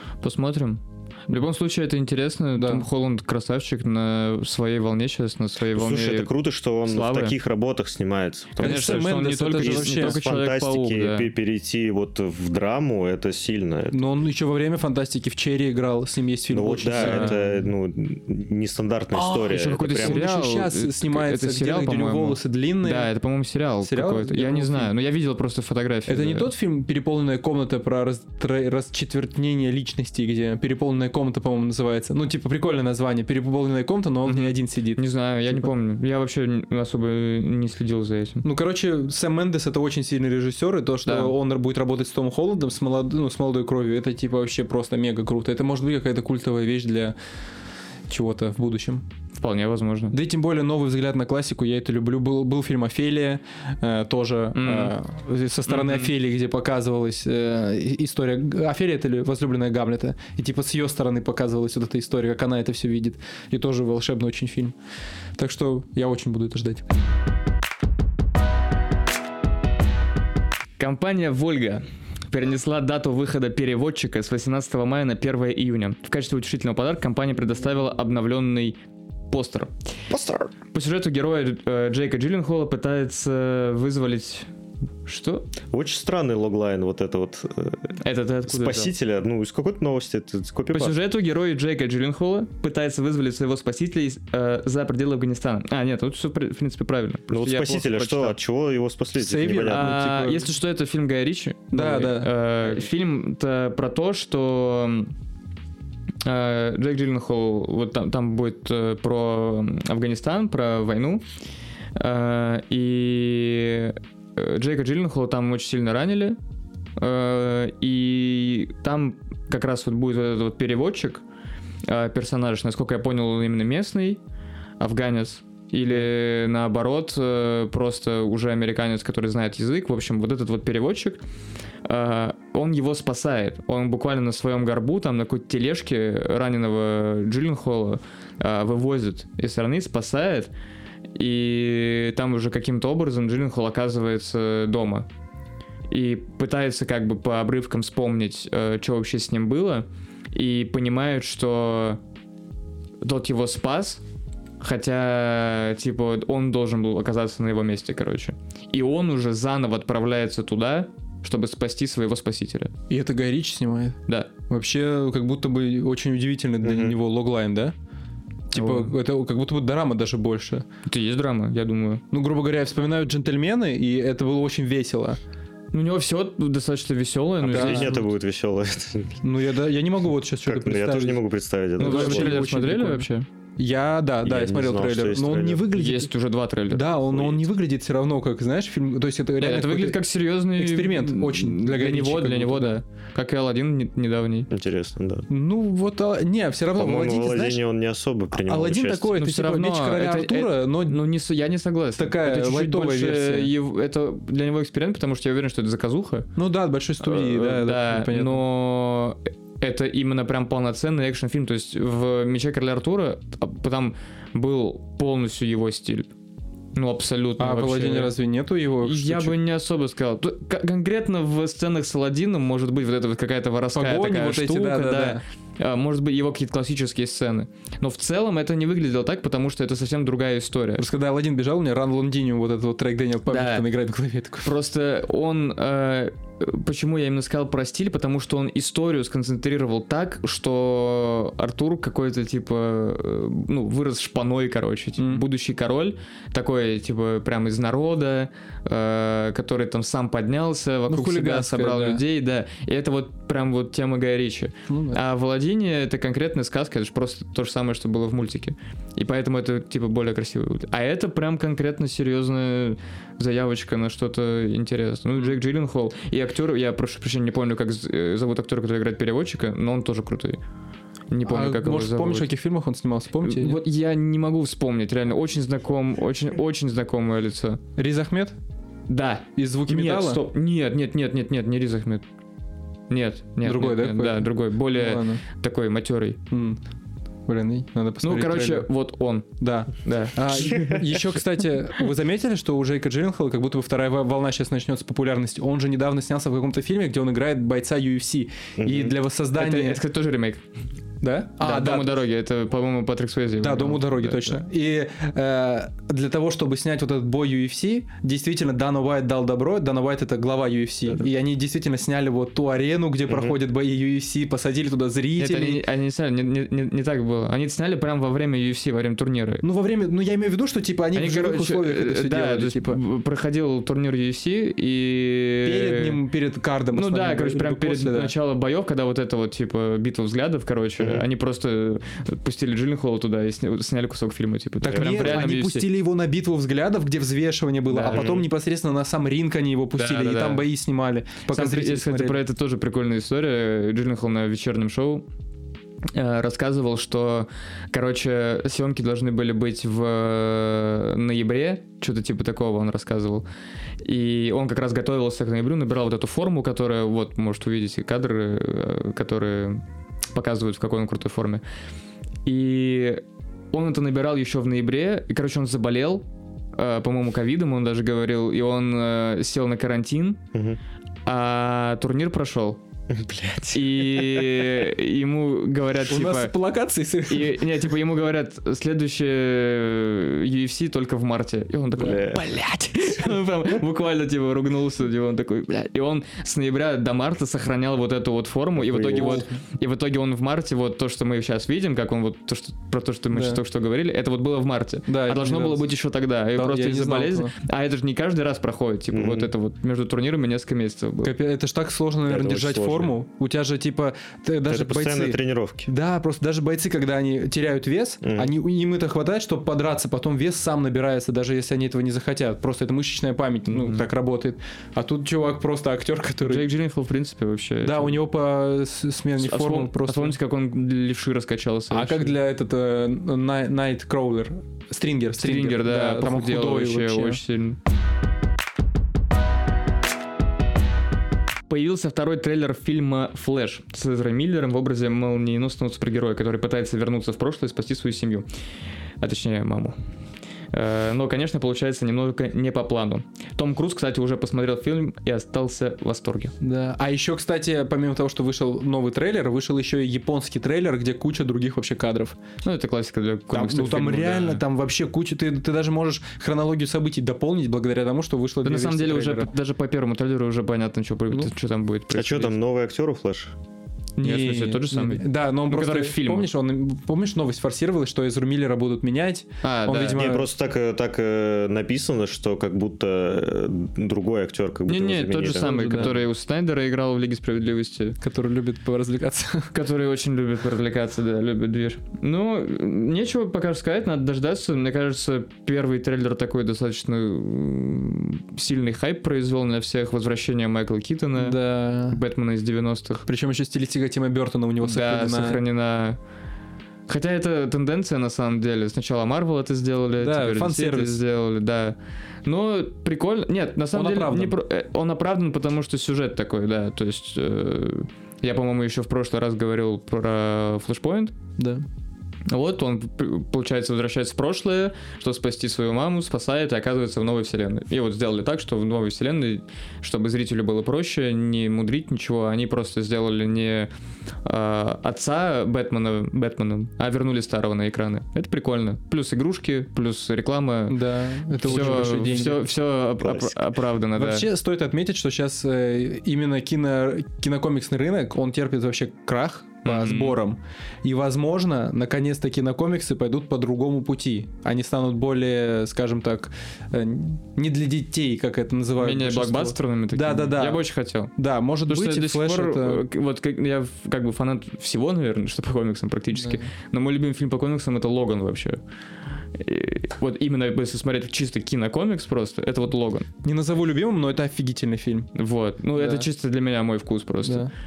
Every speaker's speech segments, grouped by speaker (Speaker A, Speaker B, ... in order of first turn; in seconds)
Speaker A: 0.2-6.3, 6.8-7.3, 8.6-11.3, 17.0-17.5, 19.1-26.5, 34.2-38.4, 41.0-41.3, 49.4-50.2, 54.5-54.9, 55.7-56.1, 70.8-78.8, 79.3-79.7, 80.7-84.5, 85.0-85.5, 88.0-88.9, 90.7-98.4, 99.7-105.1, 106.2-111.2, 112.0-116.4, 117.0-121.2, 121.8-124.2, 124.8-131.2, 131.8-140.5, 141.1-145.1, 145.9-152.0, 153.0-154.0, 154.6-162.7, 168.5-168.9, 170.9-172.0, 175.7-178.0, 181.8-183.3, 185.7-186.8, 189.4-194.5, 199.2-206.3, 207.0-216.1, 216.7-218.1, 218.8-230.8, 233.3-233.6, 234.4-270.4, 271.1-272.3, 273.2-277.6, 278.9-282.0, 282.9-286.2, 288.0-289.2, 289.8-290.8, 299.3-300.4, 301.4-304.4, 315.2-319.4, 320.9-326.0, 326.7-335.7, 337.7-338.1, 339.8-340.4, 341.3-345.0, 345.9-353.2, 353.8-361.4, 362.2-370.2, 371.1-372.6, 373.5-376.3, 377.1-401.1, 413.5-413.9, 416.2-418.0, 419.2-422.1, 425.2-427.6, 431.5-438.2, 439.0-439.8, 440.5-446.3, 452.4-454.4, 458.4-462.3, 464.0-466.3, 469.4-470.1, 474.7-478.0, 479.5-493.0, 494.6-496.0, 496.9-511.1, 512.3-523.7, 524.2-530.8, 531.4-534.2, 539.6-540.2, 548.8-551.1, 551.7-558.6, 559.3-563.1, 565.1-567.5
Speaker B: 2.6-2.9, 8.6-10.2, 13.9-17.5, 20.0-23.1, 23.8-24.9, 26.1-35.7, 38.4-47.1, 48.1-49.0, 50.1-64.7, 65.4-66.8, 99.2-100.5, 101.7-102.8, 162.9-167.7, 168.5-170.6, 172.1-175.2, 177.5-178.0, 179.2-181.2, 181.8-186.1, 186.7-190.0, 190.5-192.8, 195.3-197.6, 198.3-201.0, 202.0-203.5, 206.3-208.4, 217.4-219.3, 223.7-225.2, 230.8-234.5, 245.0-245.2, 250.9-252.0, 254.7-255.0, 271.2-273.6, 277.8-278.4, 279.4-280.2, 283.4-285.2, 286.3-286.6, 287.3-288.7, 289.4-299.8, 301.0-302.0, 303.4-315.6, 319.4-322.8, 325.4-328.1, 334.6-342.2, 375.9-377.4, 388.9-389.3, 393.1-393.4, 394.9-395.7, 396.3-397.3, 401.0-416.4, 417.6-420.1, 421.7-427.2, 446.4-452.2, 453.3-459.3, 464.0-470.2, 475.4-475.9, 478.0-479.5, 491.1-492.0, 493.1-495.4, 500.0-501.0, 503.7-504.4, 511.4-511.6, 530.7-532.5, 534.0-552.9, 556.1-556.5, 563.2-565.1, 565.8-566.1, 567.2-567.5
Speaker C: 5.7-14.0, 16.5-20.2, 80.1-80.5, 85.7-87.9, 88.5-90.9, 97.3-99.9, 166.6-166.9, 177.4-179.2, 180.4-182.4, 184.2-185.7, 187.1-187.5, 194.5-195.2, 196.7-199.2, 298.6-299.0, 313.1-313.4, 330.8-331.0, 337.9-338.3, 370.3-370.6, 372.9-374.3, 381.8-382.4, 388.6-389.2, 398.9-399.3, 402.1-403.0, 404.5-405.7, 408.0-408.3, 461.9-463.3, 469.9-475.9, 533.0-533.3